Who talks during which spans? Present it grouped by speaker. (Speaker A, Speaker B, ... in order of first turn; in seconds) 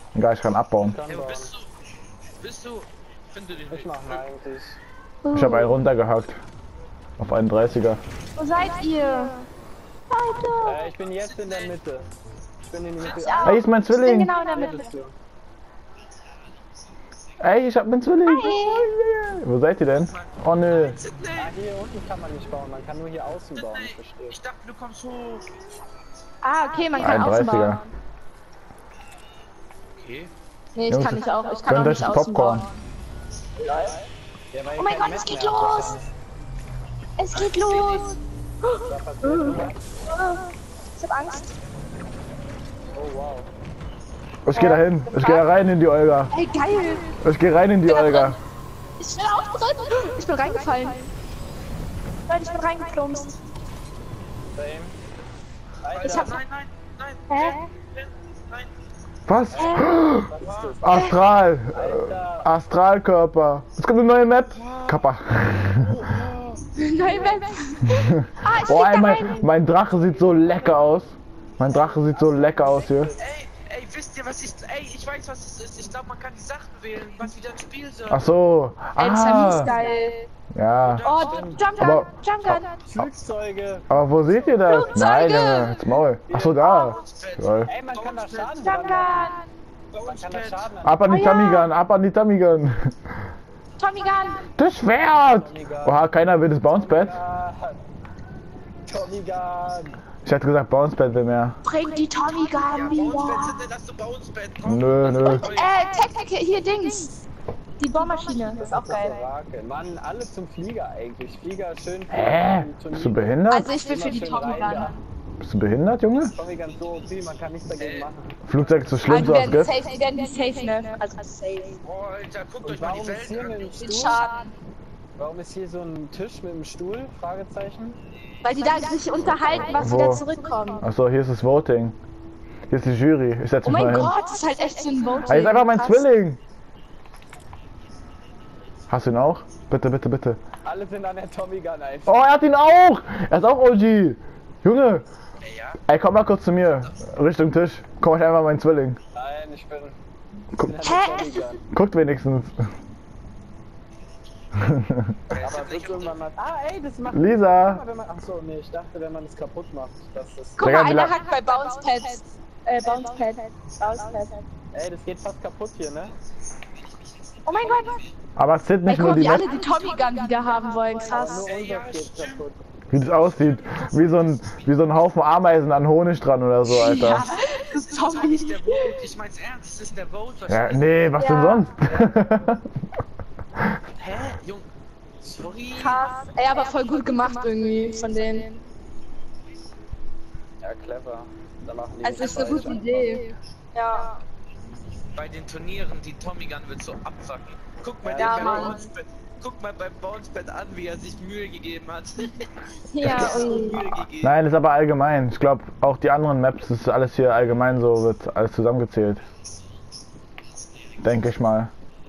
Speaker A: 0.1-1.0, 5.3-6.4, 7.2-8.0, 13.4-14.3, 17.4-21.0, 27.0-27.8, 30.9-32.7, 44.5-46.4, 47.2-48.4, 59.3-60.3, 60.8-66.0, 67.9-73.1, 78.1-79.7, 80.5-81.0, 81.8-82.7, 83.9-87.7, 90.8-92.9, 94.6-97.2, 100.2-101.6, 104.6-105.5, 112.1-113.8, 115.4-116.3, 118.5-119.8, 129.7-130.2, 130.8-131.9, 132.7-134.2, 135.3-136.4, 138.9-140.4, 142.1-145.0, 145.9-149.0, 151.7-152.6, 154.6-155.2, 157.1-157.8, 160.6-161.2, 168.4-169.5, 172.9-177.3, 180.5-182.7, 204.2-209.2, 211.0-211.7
Speaker B: 0.8-1.5, 3.7-4.8, 10.6-12.1, 12.6-13.6, 14.4-15.1, 21.4-24.4, 33.6-36.1, 38.9-39.8, 43.0-43.5, 54.5-55.0, 55.8-56.4, 59.5-61.2, 61.7-62.5, 69.8-70.9, 71.6-73.3, 81.3-81.6, 82.8-85.1, 86.3-86.8, 87.7-89.3, 90.0-91.4, 95.3-96.0, 96.7-97.8, 98.9-100.0, 108.6-115.0, 116.1-118.4, 122.6-124.2, 125.2-128.0, 140.7-142.2, 149.1-150.0, 150.5-151.6, 155.4-160.8, 164.7-166.1, 171.1-172.6, 181.8-182.5, 190.6-193.3, 198.0-198.8
Speaker C: 1.1-1.7, 2.4-4.2, 11.0-11.8, 13.0-13.5, 14.5-14.8, 19.9-21.5, 23.6-25.5, 30.0-30.3, 37.3-38.2, 55.9-58.7, 60.4-60.8, 64.5-65.1, 65.8-66.7, 73.2-78.3, 80.8-82.0, 86.8-88.7, 89.9-90.7, 102.6-105.8, 117.8-118.1, 121.8-123.9, 145.4-145.8, 155.3-156.2, 167.5-168.0, 171.4-172.4, 172.9-175.1, 177.3-181.2, 184.0-184.7, 185.2-186.1, 195.2-202.4, 203.0-204.3
Speaker D: 5.2-5.8, 8.4-9.4, 10.1-10.8, 13.2-14.9, 18.3-18.9, 26.4-27.9, 30.8-32.7, 33.7-33.9, 34.8-36.0, 37.2-41.5, 44.5-45.5, 46.3-47.1, 47.9-48.4, 49.0-51.1, 52.3-53.4, 56.0-56.4, 57.3-57.6, 59.5-59.9, 66.8-69.4, 79.0-80.3, 81.0-82.8, 84.7-85.8, 86.6-87.0, 88.6-89.4, 91.1-91.7, 93.8-94.5, 101.6-103.6, 105.2-107.2, 107.8-109.2, 113.5-115.0, 119.1-121.7, 123.8-124.5, 128.4-130.8, 133.7-136.1, 150.8-151.4, 160.6-164.4, 167.5-168.0, 168.9-171.4, 176.7-178.9, 181.2-181.7, 185.8-188.5, 192.0-194.1, 198.2-198.9, 202.9-203.9